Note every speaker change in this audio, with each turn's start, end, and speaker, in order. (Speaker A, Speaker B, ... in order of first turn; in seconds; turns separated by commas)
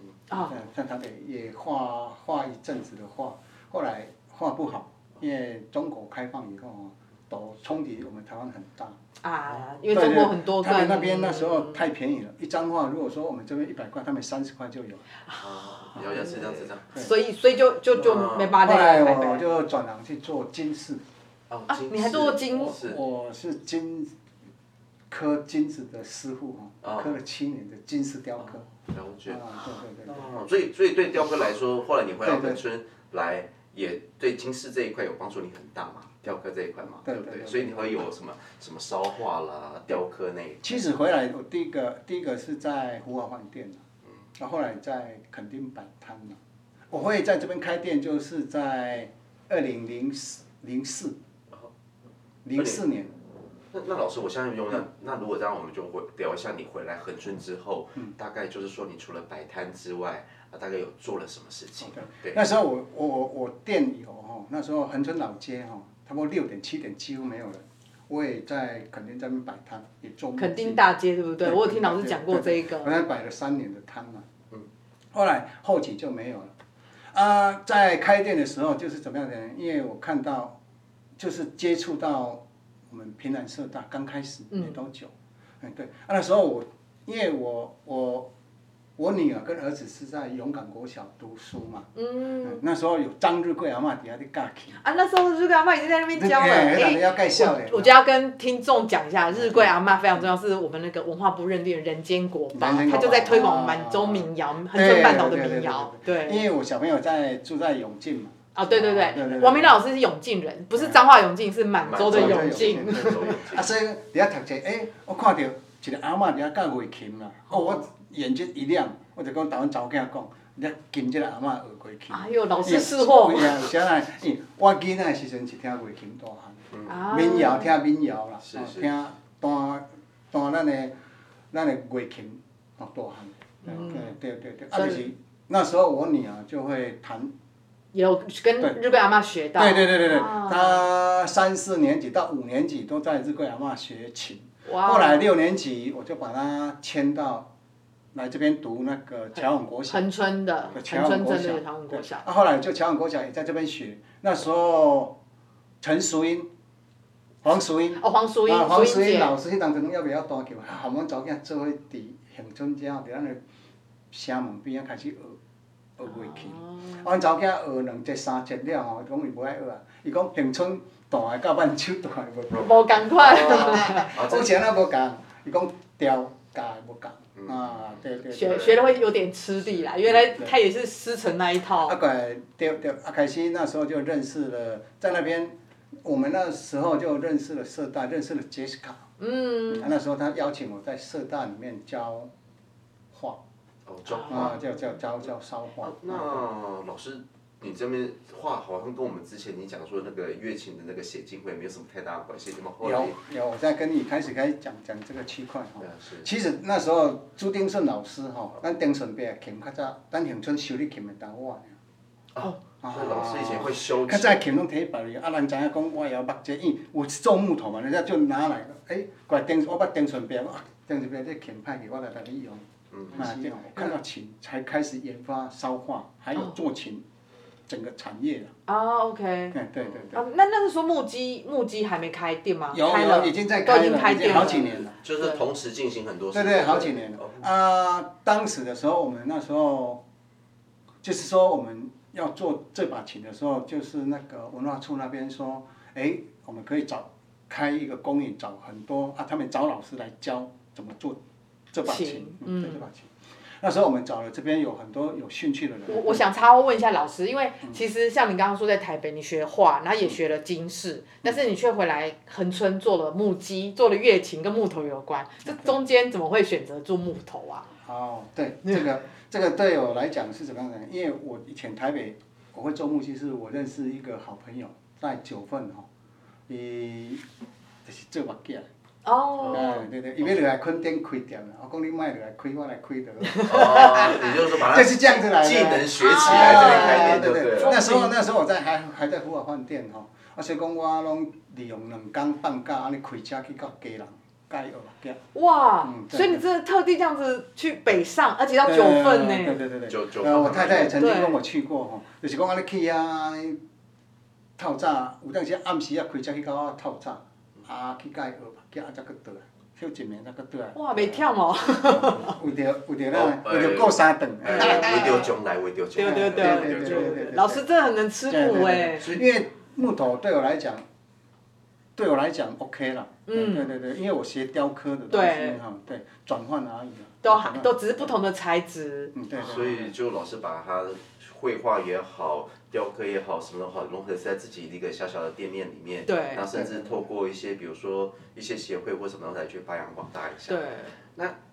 Speaker A: 0.4-9.0, Speaker B: 9.2-11.8, Speaker A: 9.9-15.0, Speaker B: 15.3-19.4, Speaker C: 15.4-17.0, Speaker C: 17.9-18.6, Speaker A: 18.6-21.0, Speaker C: 21.5-23.0, Speaker B: 21.7-22.8, Speaker A: 22.6-24.1, Speaker A: 25.1-28.6, Speaker C: 26.8-27.2, Speaker C: 28.4-40.8, Speaker A: 29.2-30.3, Speaker A: 32.2-32.6, Speaker A: 37.0-38.0, Speaker A: 40.6-43.8, Speaker A: 44.4-46.4, Speaker A: 46.9-51.1, Speaker A: 52.4-53.1, Speaker C: 52.5-52.8, Speaker C: 53.7-62.4, Speaker A: 61.8-70.8, Speaker B: 70.4-72.9, Speaker A: 71.4-74.2, Speaker A: 75.1-76.5, Speaker A: 77.1-80.6, Speaker A: 81.2-88.3, Speaker B: 84.5-84.8, Speaker A: 89.0-91.9, Speaker B: 92.0-92.6, Speaker A: 92.4-94.8, Speaker B: 94.8-106.4, Speaker A: 96.1-97.9, Speaker A: 99.3-100.2, Speaker A: 102.5-109.8, Speaker B: 108.5-113.4, Speaker C: 111.8-113.7, Speaker A: 112.0-130.9, Speaker B: 122.1-123.6, Speaker C: 126.7-127.0, Speaker B: 126.9-127.7, Speaker C: 128.4-128.9, Speaker A: 131.5-137.3, Speaker B: 133.6-134.1, Speaker B: 134.8-135.1, Speaker B: 137.9-140.8, Speaker A: 139.6-147.5, Speaker B: 144.7-145.3, Speaker A: 148.1-150.1, Speaker B: 149.9-152.2, Speaker A: 150.7-155.1, Speaker A: 155.8-156.5, Speaker A: 157.4-163.4, Speaker B: 158.0-159.3, Speaker A: 164.1-165.4, Speaker A: 166.0-178.9, Speaker B: 166.1-167.0, Speaker B: 172.5-174.1, Speaker C: 173.5-174.5, Speaker C: 177.3-177.8, Speaker C: 178.3-178.8, Speaker B: 178.3-181.9, Speaker A: 180.0-180.6, Speaker A: 181.8-189.1, Speaker B: 189.2-189.9, Speaker A: 189.7-192.3, Speaker A: 193.1-193.4, Speaker C: 193.8-194.6, Speaker B: 194.1-194.6, Speaker A: 194.3-196.5, Speaker C: 195.8-203.2, Speaker A: 202.8-211.7, Speaker C: 205.8-206.2, Speaker C: 212.3-214.4, Speaker A: 212.8-227.0, Speaker C: 222.9-223.5, Speaker A: 227.7-228.5, Speaker B: 228.7-229.6, Speaker A: 229.5-230.2, Speaker C: 229.8-230.1, Speaker B: 230.1-235.4, Speaker A: 232.7-235.0, Speaker C: 234.2-237.5, Speaker A: 236.3-240.0, Speaker A: 241.0-251.2, Speaker A: 251.7-256.3, Speaker B: 251.8-252.8, Speaker B: 255.9-267.7, Speaker A: 265.4-265.8, Speaker A: 267.8-275.9, Speaker A: 276.5-277.2, Speaker A: 277.8-278.7, Speaker B: 279.0-279.9, Speaker A: 279.5-295.2, Speaker B: 283.3-284.3, Speaker C: 283.4-287.8, Speaker B: 286.0-288.1, Speaker B: 295.3-299.6, Speaker A: 295.8-296.4, Speaker A: 298.6-303.6, Speaker C: 299.9-301.0, Speaker B: 300.9-301.4, Speaker A: 304.6-311.2, Speaker B: 310.7-312.4, Speaker A: 311.8-315.4, Speaker C: 313.1-317.4, Speaker B: 314.6-315.2, Speaker B: 315.9-319.1, Speaker A: 316.0-317.6, Speaker A: 318.3-320.8, Speaker A: 321.9-328.1, Speaker B: 323.3-323.7, Speaker B: 325.1-325.6, Speaker B: 327.2-329.1, Speaker A: 329.1-329.9, Speaker C: 329.4-341.4, Speaker B: 336.1-336.4, Speaker A: 336.5-337.0, Speaker B: 340.5-341.0